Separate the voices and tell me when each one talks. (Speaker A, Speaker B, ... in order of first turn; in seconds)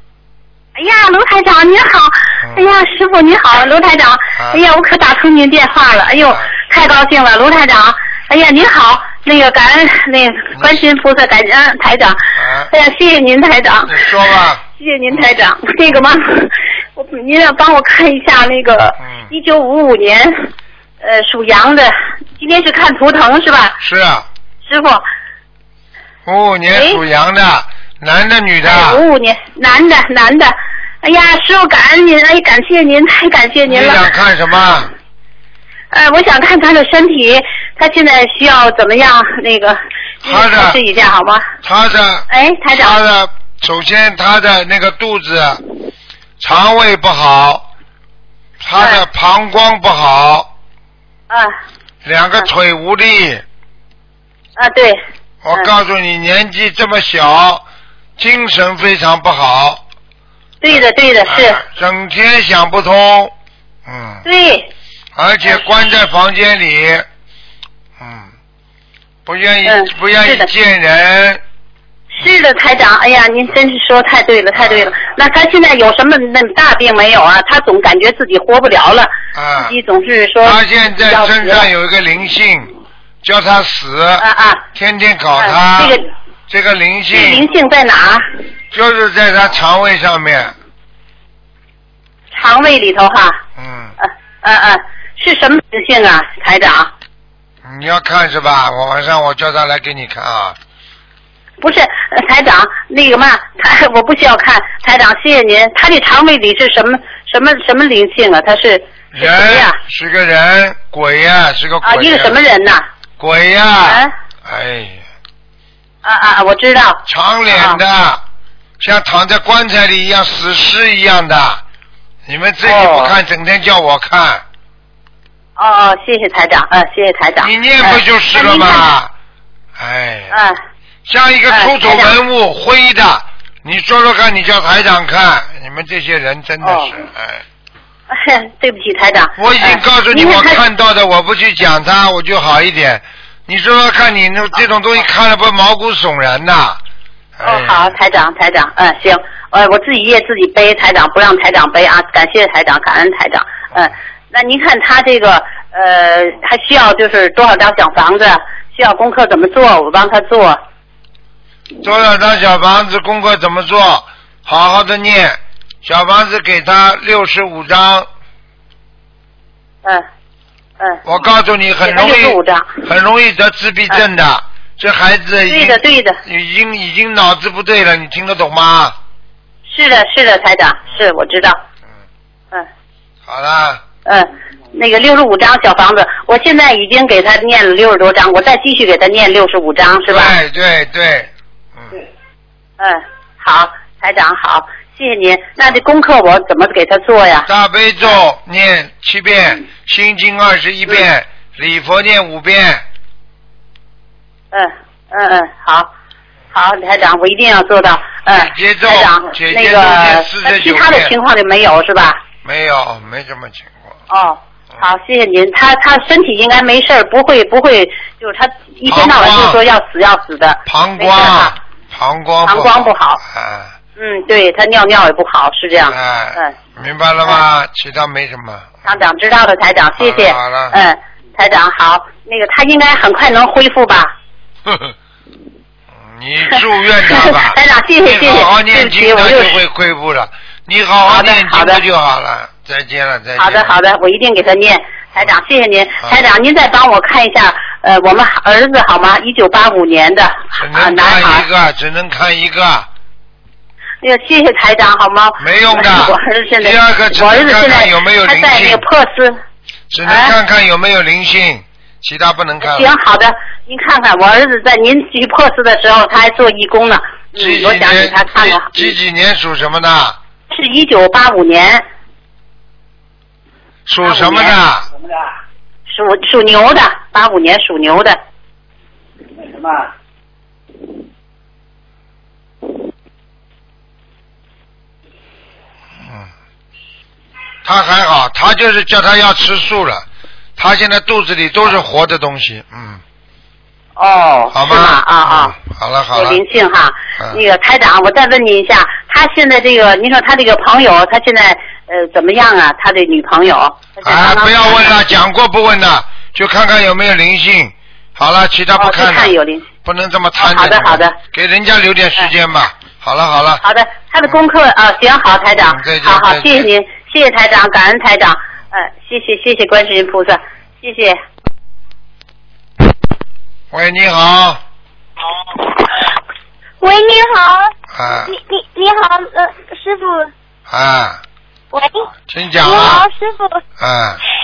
Speaker A: 0.8-14.2, 14.7-20.5, 21.0-23.8, 24.6-25.0, 26.7-27.0, 28.6-34.1, 35.9-41.5, 42.3-43.0, 48.8-49.0, 51.3-51.6, 54.6-55.0, 60.6-61.6, 64.2-64.7, 69.7-70.5, 72.2-81.7, 84.2-84.7, 85.4-86.1, 87.1-88.3, 92.3-93.4, 94.0-96.9, 101.6-109.8, 111.8-112.9, 113.8-114.1, 116.0-117.8, 122.7-123.2, 125.6-128.9, 130.3-130.6, 131.5-132.1, 136.6-136.9, 138.1-140.6, 147.4-160.6, 171.8-172.8, 175.5-176.2, 179.7-181.6, 184.1-190.3, 192.8-197.5, 204.5-205.9, 206.5-212.2, 214.1-221.6, 222.4-223.2, 224.0-226.5, 228.8-234.2, 237.1-239.6, 241.1-241.8, 243.4-251.5, 254.0-259.4, 260.1-260.4, 262.6-268.9, 270.5-271.8, 274.0-274.6, 275.9-278.2, 294.0-295.6, 296.1-304.9, 308.8-309.7, 310.4-311.2, 313.6-321.2
Speaker B: 4.4-4.6, 10.6-10.8, 12.3-12.7, 13.9-15.3, 23.8-24.3, 26.3-29.0, 33.7-34.9, 40.2-40.8, 41.6-45.6, 46.4-47.7, 48.6-50.5, 52.0-53.4, 55.4-57.6, 58.2-59.8, 61.3-63.3, 63.9-64.2, 65.2-67.1, 68.0-68.3, 69.3-71.4, 74.5-75.0, 79.3-79.8, 80.4-82.7, 83.2-86.0, 86.5-87.5, 88.7-90.5, 93.6-94.0, 97.7-100.6, 109.1-112.4, 113.2-115.0, 117.1-118.2, 118.8-121.6, 122.3-124.4, 127.4-129.1, 129.8-130.4, 131.1-137.4, 139.4-146.8, 147.4-147.9, 161.8-168.1, 171.0-179.0, 183.3-183.8, 190.1-192.0, 197.5-202.8, 208.3-211.2, 212.4-213.9, 218.9-219.6, 220.7-223.7, 225.9-228.9, 230.0-230.8, 234.7-234.9, 235.9-243.8, 250.6-252.9, 255.4-258.8, 259.9-262.9, 267.4-270.2, 273.9-274.9, 286.0-286.3, 287.6-290.1, 290.6-293.0, 294.5-296.4, 304.1-313.6, 315.7-316.7, 323.7-324.6, 327.9-328.3, 330.7-331.2, 332.3-333.1, 333.8-334.2
Speaker C: 326.8-327.7, 328.3-330.3, 331.7-332.1, 332.6-333.6